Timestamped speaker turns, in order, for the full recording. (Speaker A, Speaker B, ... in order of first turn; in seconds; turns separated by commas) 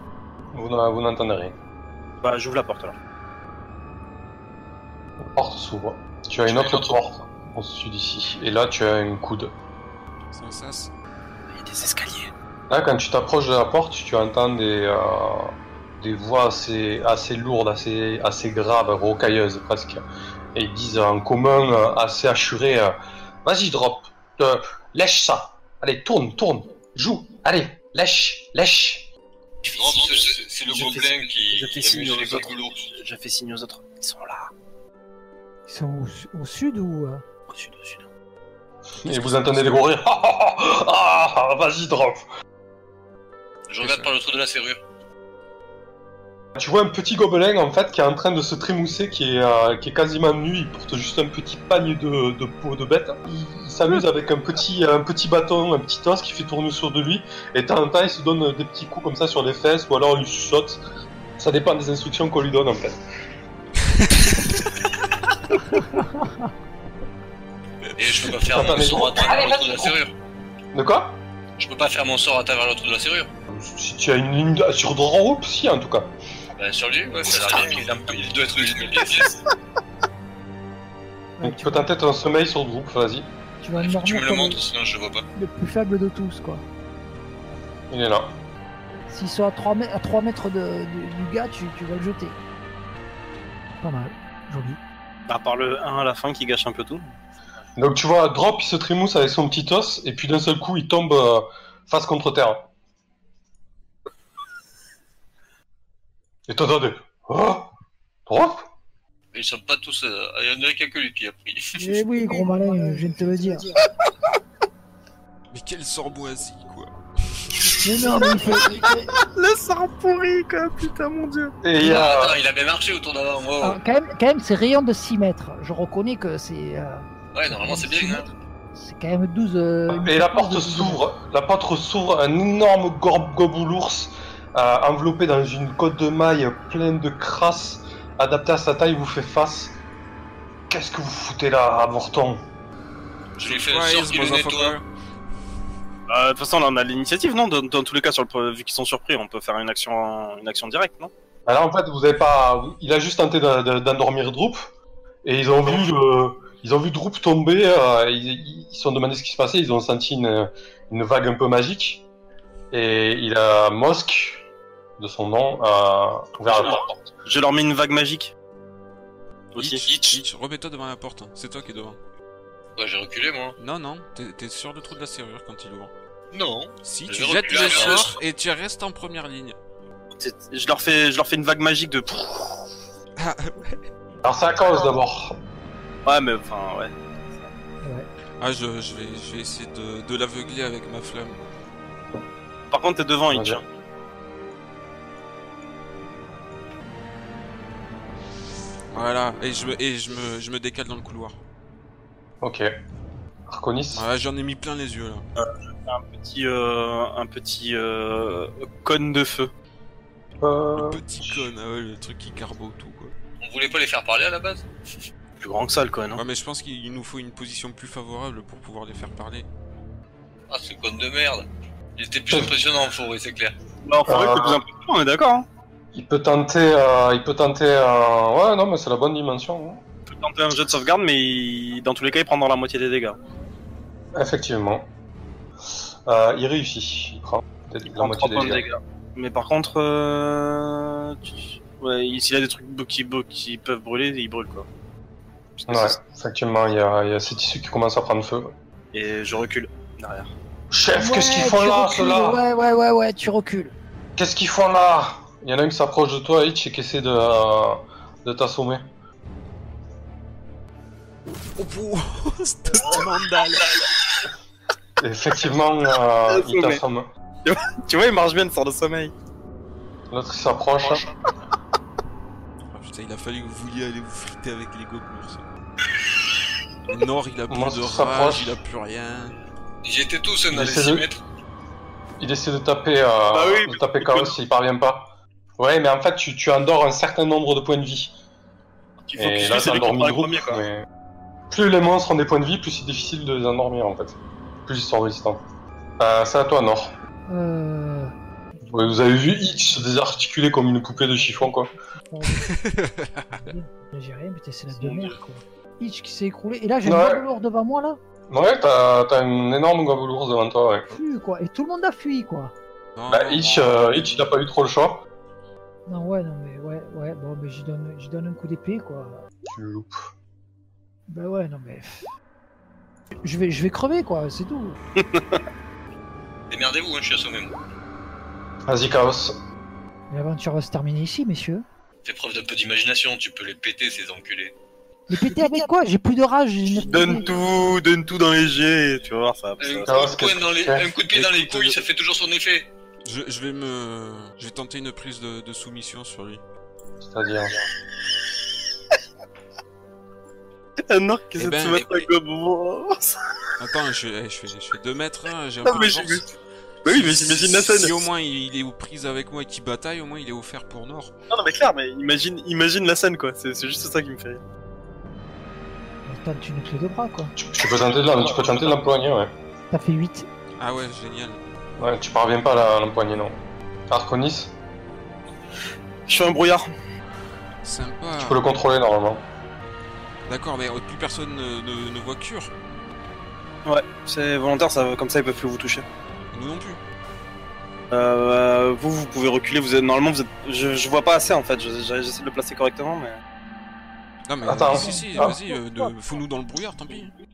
Speaker A: 0.5-1.6, Speaker B: 2.2-3.0, Speaker A: 5.2-9.5, Speaker C: 6.5-7.0, Speaker D: 10.3-10.9, Speaker B: 11.5-12.3, Speaker A: 12.7-20.0, Speaker A: 20.6-29.1, Speaker C: 29.6-32.8, Speaker B: 29.7-34.5, Speaker E: 35.7-37.2, Speaker B: 37.5-38.0, Speaker D: 39.0-39.9, Speaker A: 39.0-42.2, Speaker C: 43.7-44.8, Speaker D: 43.8-44.1, Speaker A: 46.5-60.8, Speaker A: 61.4-63.0, Speaker D: 64.4-64.7, Speaker E: 65.9-66.3, Speaker C: 68.0-70.1, Speaker A: 68.5-70.0, Speaker A: 70.7-71.2, Speaker C: 71.6-73.3, Speaker A: 73.5-76.1, Speaker C: 76.6-79.4, Speaker B: 78.9-79.3, Speaker E: 81.4-81.9, Speaker A: 81.4-83.3, Speaker E: 83.6-84.7, Speaker C: 83.8-85.2, Speaker E: 85.3-86.6, Speaker A: 87.9-88.3, Speaker E: 89.1-92.4, Speaker E: 93.8-94.8, Speaker B: 95.3-97.1, Speaker A: 97.8-102.7, Speaker A: 106.5-107.7, Speaker A: 108.2-108.7, Speaker C: 109.3-112.0, Speaker E: 111.8-113.7, Speaker D: 115.5-117.6, Speaker E: 117.7-119.1, Speaker B: 117.7-121.6, Speaker A: 121.6-122.4, Speaker C: 121.8-123.8, Speaker E: 123.6-131.0, Speaker C: 127.3-128.3, Speaker A: 129.9-139.8, Speaker A: 140.7-142.4, Speaker C: 143.4-144.8, Speaker D: 143.4-144.8, Speaker B: 146.1-151.1, Speaker A: 151.5-154.7, Speaker A: 155.2-162.0, Speaker A: 162.7-164.4, Speaker A: 165.0-166.9, Speaker B: 166.5-168.3, Speaker B: 169.6-169.8, Speaker D: 169.6-172.0, Speaker C: 169.8-170.2, Speaker C: 172.8-173.6, Speaker D: 173.6-175.9, Speaker C: 176.3-178.2, Speaker D: 176.8-179.6, Speaker B: 180.2-182.7, Speaker D: 183.2-183.8, Speaker A: 184.2-185.4, Speaker B: 186.1-186.9, Speaker E: 187.8-188.1, Speaker D: 188.4-191.4, Speaker B: 192.7-193.6, Speaker A: 193.3-193.6, Speaker D: 198.9-201.4, Speaker A: 202.4-202.7, Speaker A: 203.5-204.1, Speaker D: 203.9-205.2, Speaker B: 205.4-209.5, Speaker A: 210.4-211.5, Speaker D: 210.8-213.1, Speaker C: 213.4-214.7, Speaker B: 215.4-216.2, Speaker D: 216.1-219.5, Speaker C: 220.5-223.6, Speaker B: 223.8-225.5, Speaker A: 224.1-224.6, Speaker A: 225.9-229.8, Speaker B: 230.1-233.2, Speaker A: 234.2-234.9, Speaker A: 236.1-238.7, Speaker B: 237.9-244.7, Speaker B: 245.6-246.0, Speaker A: 245.7-248.5, Speaker B: 248.9-250.3, Speaker A: 250.7-252.4, Speaker E: 250.9-253.7, Speaker A: 254.2-258.9, Speaker D: 261.6-263.8, Speaker A: 265.0-267.1, Speaker B: 266.3-266.8, Speaker B: 267.4-269.1, Speaker A: 270.1-271.0, Speaker D: 272.7-275.4, Speaker D: 276.9-279.3, Speaker A: 277.5-278.6, Speaker C: 279.8-281.2, Speaker A: 280.5-281.1, Speaker A: 282.2-288.1, Speaker B: 283.3-284.3, Speaker B: 289.0-290.6, Speaker A: 289.1-290.8, Speaker A: 291.5-295.4, Speaker A: 296.0-296.9, Speaker E: 297.3-298.1, Speaker A: 298.6-301.7, Speaker E: 301.1-302.6, Speaker D: 302.4-303.4, Speaker E: 303.3-308.0, Speaker B: 304.8-305.1, Speaker A: 306.8-307.2, Speaker A: 308.3-310.9, Speaker E: 310.9-312.5, Speaker D: 312.9-314.3, Speaker A: 313.1-315.0, Speaker E: 315.9-319.2, Speaker A: 319.5-320.0, Speaker E: 321.1-322.1, Speaker E: 323.2-324.8, Speaker B: 325.0-325.4, Speaker C: 326.5-327.5, Speaker A: 328.7-329.4, Speaker E: 330.1-331.6, Speaker C: 332.0-334.5, Speaker E: 335.1-337.2, Speaker B: 336.8-340.0, Speaker C: 339.6-342.7, Speaker A: 339.9-340.9, Speaker D: 341.1-341.8, Speaker D: 343.0-346.4, Speaker A: 347.0-347.6, Speaker B: 350.9-353.2, Speaker D: 351.4-352.1, Speaker D: 353.6-356.3, Speaker B: 355.6-356.2, Speaker B: 356.8-357.9, Speaker D: 356.9-361.1, Speaker B: 361.3-364.4, Speaker E: 366.1-367.3, Speaker A: 367.4-369.3, Speaker E: 369.7-370.3, Speaker D: 370.6-371.4, Speaker A: 371.8-374.5, Speaker B: 376.1-376.6, Speaker D: 377.6-378.4, Speaker A: 378.2-379.2, Speaker D: 380.3-382.5, Speaker B: 383.6-385.9, Speaker D: 386.3-386.8, Speaker B: 387.9-393.2, Speaker D: 394.3-397.1, Speaker A: 394.4-395.4, Speaker E: 394.7-395.4